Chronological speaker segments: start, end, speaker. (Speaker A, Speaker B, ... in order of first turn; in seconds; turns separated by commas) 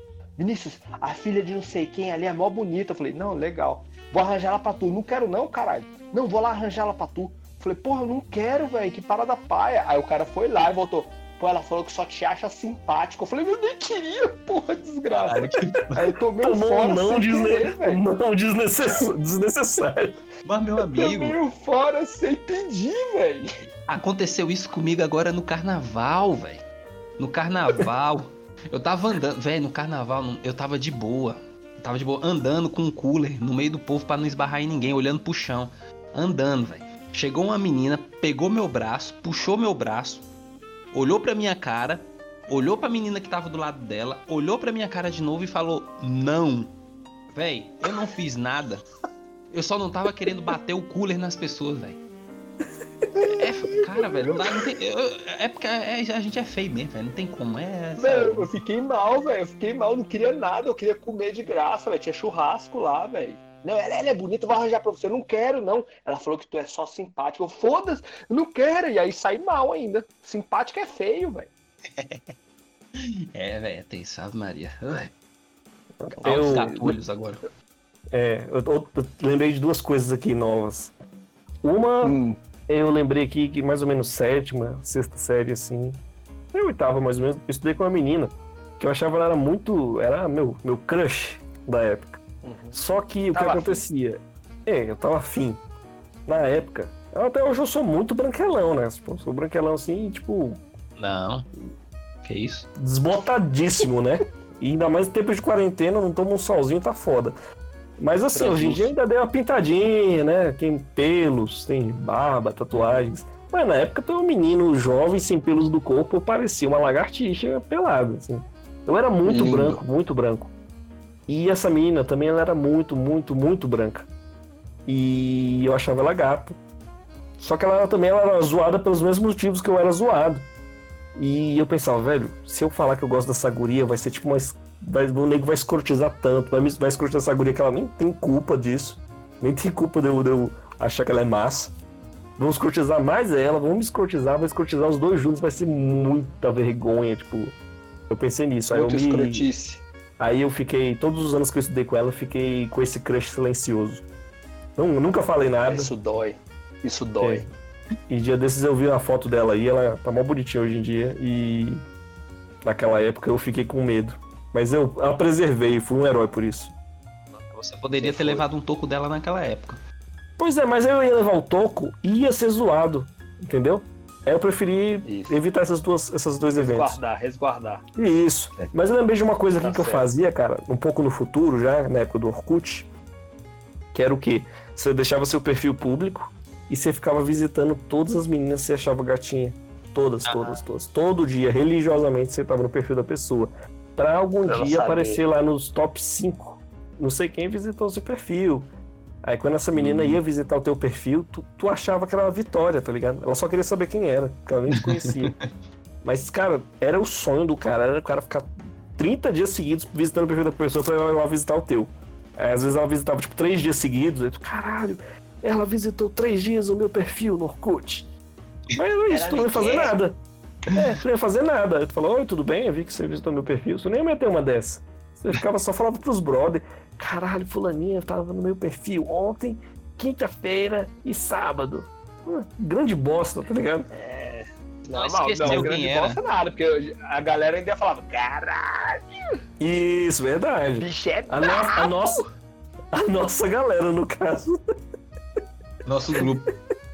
Speaker A: 0.4-18.0, Speaker B: 15.3-16.0, Speaker C: 16.4-20.2, Speaker B: 20.4-21.4, Speaker A: 20.9-23.5, Speaker B: 23.9-26.6, Speaker B: 27.2-40.2, Speaker B: 40.9-46.7, Speaker B: 47.3-48.8, Speaker B: 49.5-52.0, Speaker B: 53.3-58.5, Speaker A: 58.0-71.5, Speaker B: 72.0-72.3, Speaker B: 73.0-75.1, Speaker C: 76.0-77.0, Speaker A: 76.1-76.8, Speaker B: 76.2-77.4, Speaker C: 78.1-80.9, Speaker C: 81.6-82.2, Speaker A: 82.0-82.4, Speaker C: 82.7-86.0, Speaker C: 86.5-92.2, Speaker A: 92.4-92.8, Speaker C: 92.7-95.6, Speaker A: 93.3-93.8, Speaker C: 96.2-100.6, Speaker B: 101.0-101.5, Speaker B: 102.2-102.7, Speaker C: 102.8-107.3, Speaker C: 108.0-120.5, Speaker A: 108.3-108.9, Speaker A: 112.7-113.1, Speaker A: 119.2-119.8, Speaker C: 121.3-124.1, Speaker C: 124.8-126.6, Speaker C: 127.4-130.4, Speaker C: 131.2-141.7, Speaker C: 142.4-147.6, Speaker C: 148.1-149.5, Speaker A: 148.7-149.8, Speaker C: 150.2-154.0, Speaker C: 154.8-155.9, Speaker A: 155.7-157.5, Speaker C: 157.2-157.4, Speaker C: 158.1-161.8, Speaker C: 162.6-166.7, Speaker A: 167.4-168.4, Speaker B: 167.7-169.8, Speaker C: 170.4-177.0, Speaker A: 175.0-175.4, Speaker A: 176.5-177.8, Speaker C: 177.9-182.9, Speaker A: 179.6-180.1, Speaker C: 183.9-198.7, Speaker B: 190.2-190.6, Speaker A: 194.4-195.2, Speaker C: 199.2-205.3, Speaker B: 199.7-200.2, Speaker B: 204.7-205.4, Speaker C: 206.0-218.1, Speaker C: 218.8-220.2, Speaker A: 219.1-219.9, Speaker C: 220.7-233.9, Speaker A: 233.9-239.0, Speaker B: 234.9-236.2, Speaker C: 235.4-235.7, Speaker C: 239.6-242.2, Speaker A: 240.8-242.1, Speaker C: 242.9-244.6, Speaker B: 245.8-246.5